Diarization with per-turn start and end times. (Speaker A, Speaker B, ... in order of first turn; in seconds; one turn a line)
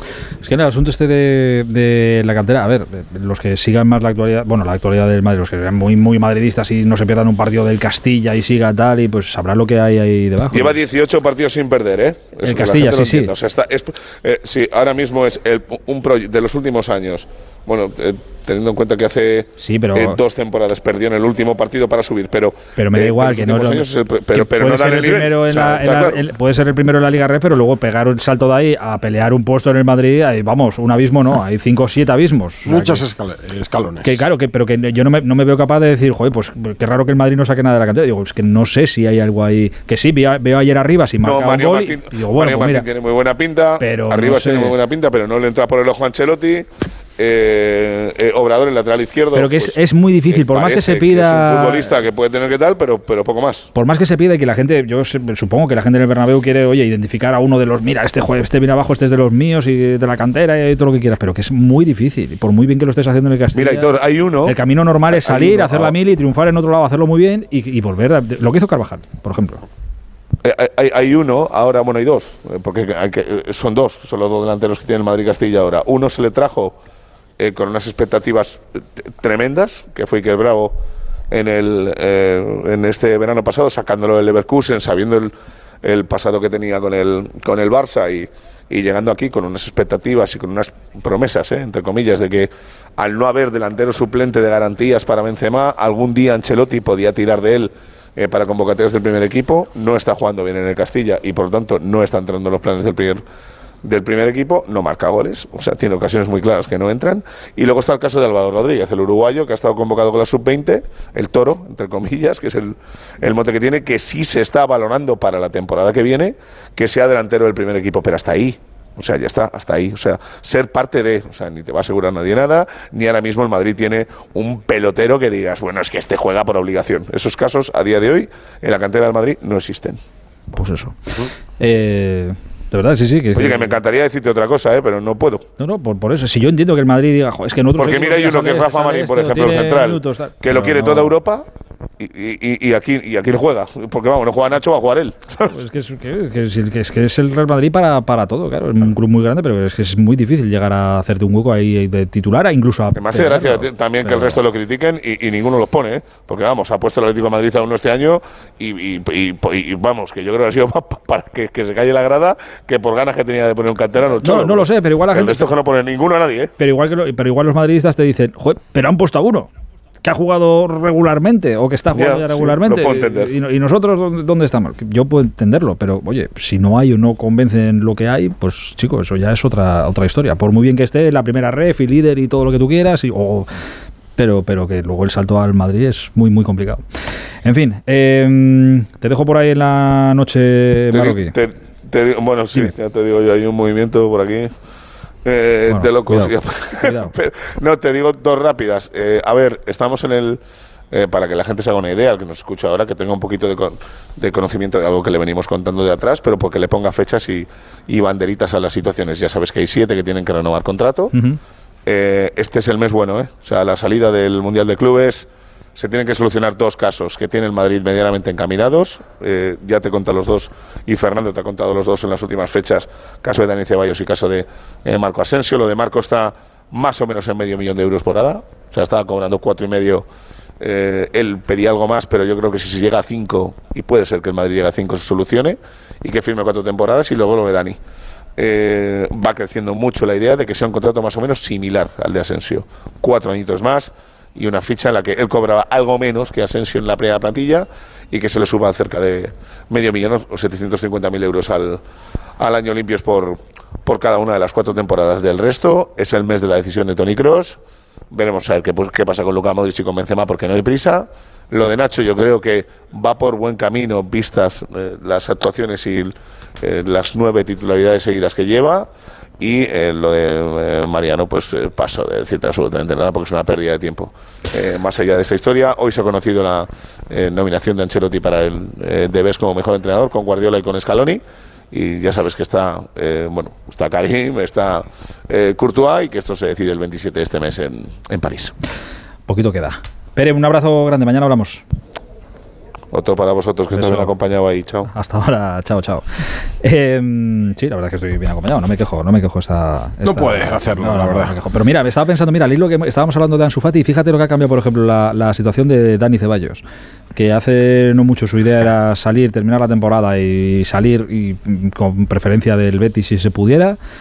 Speaker A: 0.4-10.8
Speaker B: 10.5-26.2
Speaker A: 12.4-13.3
Speaker A: 19.6-20.2
Speaker A: 22.8-33.1
Speaker C: 32.6-34.2
Speaker A: 34.0-42.8
Speaker B: 41.2-46.7
Speaker A: 43.8-44.7
Speaker B: 47.2-49.8
Speaker A: 49.3-51.9
Speaker B: 50.3-53.7
Speaker A: 53.7-63.9
Speaker B: 63.5-64.6
Speaker A: 64.4-69.6
Speaker B: 65.1-65.9
Speaker B: 70.4-76.7
Speaker B: 77.4-80.8
Speaker B: 81.3-85.3
Speaker B: 85.8-103.2
Speaker B: 103.8-130.0
Speaker A: 130.5-131.0
Speaker A: 131.6-133.7
Speaker B: 133.3-135.4
Speaker A: 135.6-141.1
Speaker B: 137.7-141.4
Speaker B: 142.0-145.6
Speaker A: 145.5-154.4
Speaker B: 152.9-166.5
Speaker A: 164.2-165.4
Speaker A: 166.6-169.5
Speaker A: 170.0-183.5
Speaker B: 171.9-173.3
Speaker A: 184.2-186.8
Speaker A: 187.4-191.3
Speaker B: 190.9-194.5
Speaker B: 195.2-200.4
Speaker A: 195.7-197.1
Speaker B: 200.9-211.1
Speaker A: 211.1-211.4
Speaker B: 211.8-230.0
Speaker B: 230.6-237.8
Speaker B: 238.4-251.8
Speaker B: 252.4-257.6
Speaker B: 258.1-268.9
Speaker B: 269.4-281.2
Speaker B: 281.7-288.5
Speaker A: 289.3-291.6
Speaker B: 292.9-294.9
Speaker A: 293.7-294.1
Speaker A: 294.9-306.6
Speaker C: 300.0-301.3
Speaker A: 307.1-313.8